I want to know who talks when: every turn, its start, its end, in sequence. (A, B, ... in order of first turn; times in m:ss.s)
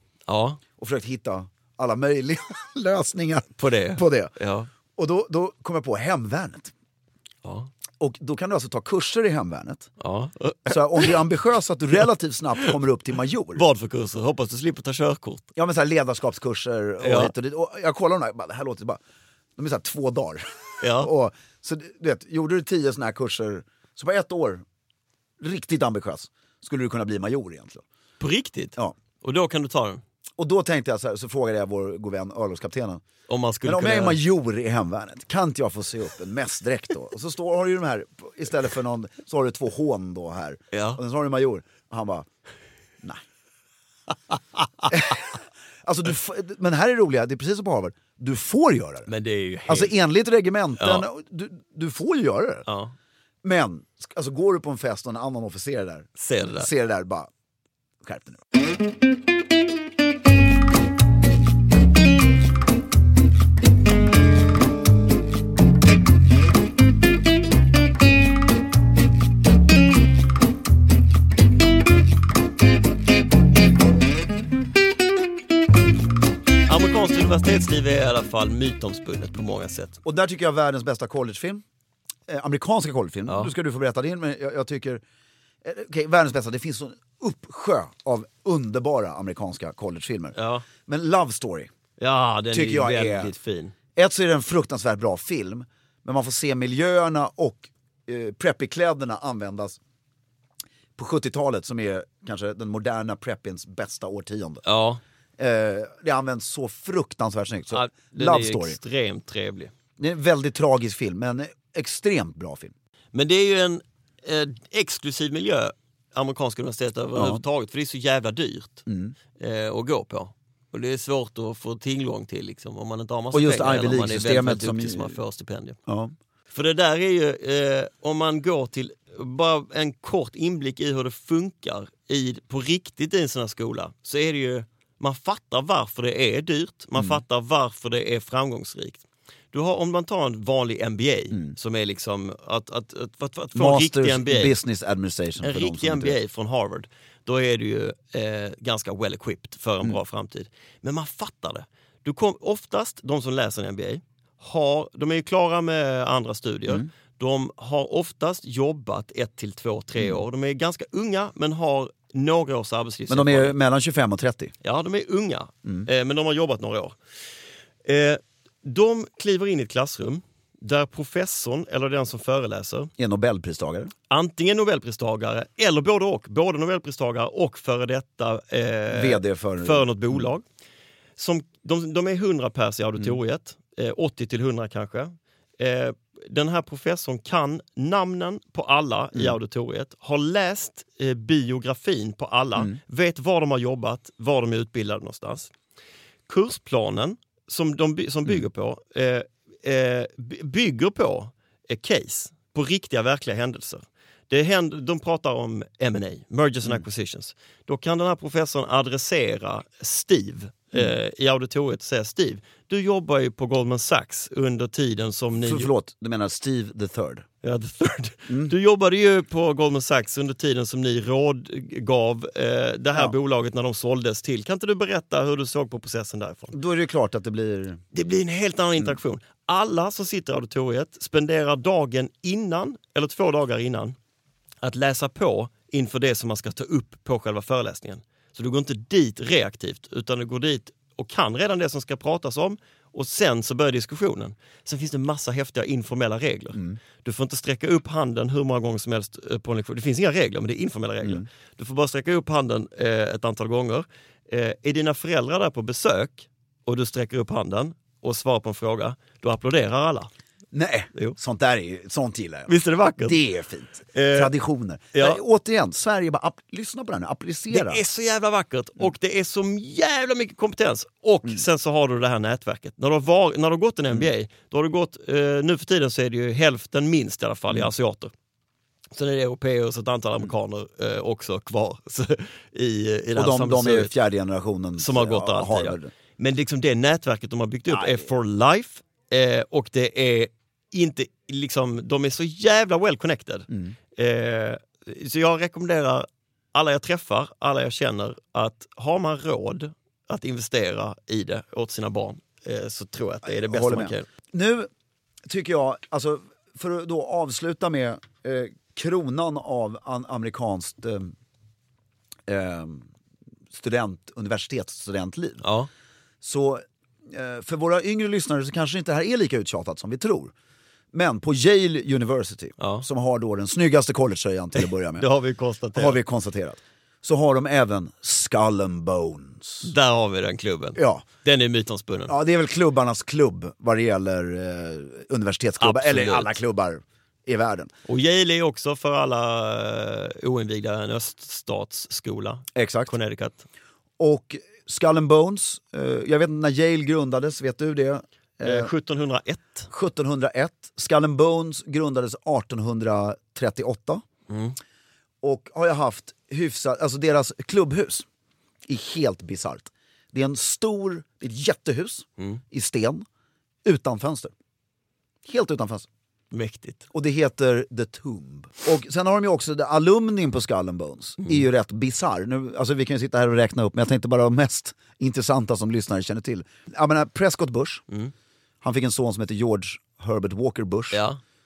0:00.3-0:00.6 A
0:00.8-0:04.4 B
0:03.6-0:04.7 A
0:05.0-0:06.7 B
0:07.4-0:07.7 A
0:08.0-0:09.9 B
0:10.0-0:11.2 A
0:10.7-0:13.6 B
0:13.6-0:15.5 A
0:15.6-0:19.0 B
0:17.0-0:17.3 A
0:19.6-0:24.6 B
0:20.8-0:21.1 A
0:25.4-0:27.8 B
0:28.2-0:30.0 A
0:30.4-0:33.0 B
0:33.3-0:34.2 A
0:33.6-0:42.3 B
0:40.7-0:41.0 A
0:44.9-0:49.1 B
0:49.1-0:50.0 A
0:49.7-0:52.7 B
0:50.8-0:51.1 A
0:52.7-0:53.0 A
0:53.4-0:57.3 B
0:56.2-0:56.7 A
0:58.0-0:58.4 B
1:16.7-1:20.0 A
1:20.0-1:21.6 B
1:22.3-1:25.0 B
1:23.3-1:23.5 A
1:25.6-1:31.7 B
1:30.4-1:30.7 A
1:32.0-1:33.7 A
1:32.5-1:33.3 B
1:34.0-1:39.8 B
1:41.0-1:44.6 B
1:44.6-1:45.0 A
1:45.4-1:48.8 B
1:47.7-1:49.7 A
1:50.0-1:52.7 B
1:53.1-1:58.8 A
1:57.2-1:57.4 B
1:58.9-1:59.2 B
1:59.4-2:05.8 A
2:03.3-2:05.2 B
2:05.9-2:06.1 B
2:06.5-2:24.6 A
2:17.0-2:17.2 B
2:21.3-2:21.6 B
2:23.5-2:26.2 B
2:25.4-2:43.6 A
2:40.0-2:40.2 B
2:43.1-2:44.5 B
2:44.6-2:47.0 A
2:47.8-2:52.9 A
2:53.0-2:53.9 B
2:54.1-3:00.4 A
2:58.9-3:00.2 B
3:01.2-3:15.5 A
3:16.3-3:35.7 A
3:35.4-3:37.3 B
3:37.4-3:46.6 A
3:38.3-3:38.5 B
3:46.5-3:47.8 B
3:47.9-3:54.0 A
3:54.6-4:20.1 A
4:06.5-4:06.8 B
4:20.5-4:27.8 B
4:22.5-4:23.2 A
4:23.9-4:24.3 A
4:24.9-4:25.2 A
4:27.5-4:38.1 A
4:38.9-4:44.0 A
4:43.2-4:45.9 B
4:44.8-5:04.1 A
4:47.7-4:48.0 B
4:53.5-4:53.8 B
5:03.3-5:04.7 B
5:05.3-5:11.1 B
5:12.3-5:12.9 B
5:13.5-5:15.4 B
5:15.4-5:15.7 A
5:16.2-5:20.3 B
5:20.9-5:25.1 B
5:22.6-5:22.9 A
5:24.6-5:26.0 A
5:25.8-5:29.7 B
5:29.6-5:32.1 A
5:30.8-5:31.0 B
5:32.1-5:37.7 B
5:35.6-5:36.4 A
5:37.9-5:43.4 A
5:42.6-5:42.9 B
5:44.0-5:48.7 B
5:48.4-5:49.7 A
5:49.7-5:54.0 B
5:54.3-5:54.6 A
5:55.2-5:58.1 B
5:58.7-6:03.0 B
6:03.6-6:04.3 B
6:05.2-6:05.9 B
6:06.3-6:06.9 A
6:06.9-6:17.8 B
6:18.6-6:21.0 B
6:20.9-6:21.2 A